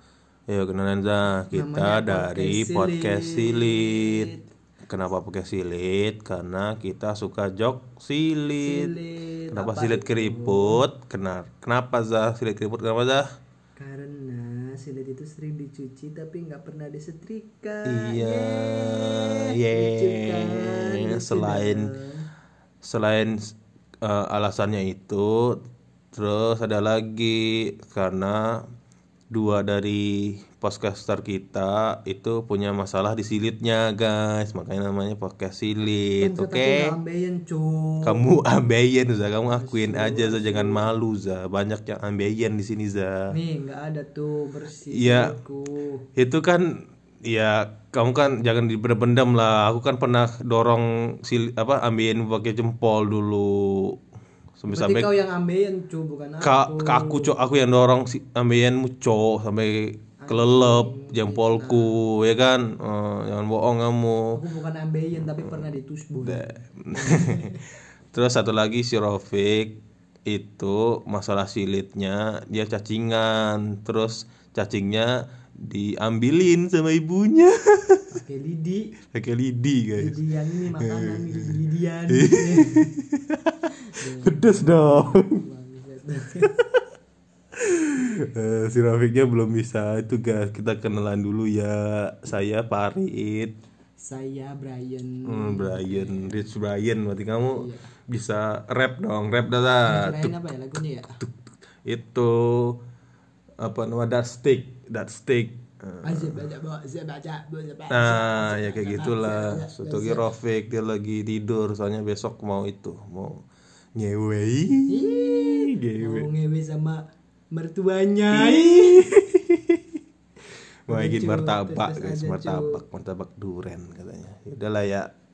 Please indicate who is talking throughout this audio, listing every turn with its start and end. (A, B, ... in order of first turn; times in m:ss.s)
0:00.5-0:04.3 A
0:01.5-0:04.5 B
0:04.8-0:08.9 A
0:08.6-0:10.8 B
0:09.5-0:13.3 A
0:13.8-0:22.3 B
0:17.9-0:21.9 A
0:22.8-0:25.6 A
0:26.1-0:28.4 A
0:29.3-0:37.0 A
0:36.2-0:38.3 B
0:38.0-0:43.3 A
0:39.5-0:40.9 B
0:43.3-0:46.0 B
0:44.9-0:45.4 A
0:46.2-0:54.0 A
0:54.6-0:55.1 A
0:54.7-0:57.4 B
0:56.4-1:04.4 A
1:00.2-1:02.0 B
1:04.3-1:07.6 B
1:06.2-1:07.6 A
1:08.1-1:18.1 A
1:18.1-1:18.9 B
1:19.1-1:21.6 A
1:20.0-1:22.9 B
1:22.1-1:25.4 A
1:23.9-1:26.5 B
1:26.4-1:26.7 A
1:27.6-1:33.6 A
1:34.0-1:36.5 B
1:35.2-1:40.3 A
1:37.5-1:37.9 B
1:39.8-1:41.2 B
1:41.8-1:42.8 A
1:43.6-1:46.5 A
1:46.0-1:50.3 B
1:47.9-1:53.4 A
1:54.0-1:56.2 A
1:54.9-1:59.1 B
1:58.3-1:59.8 A
2:00.9-2:05.1 A
2:00.9-2:02.8 B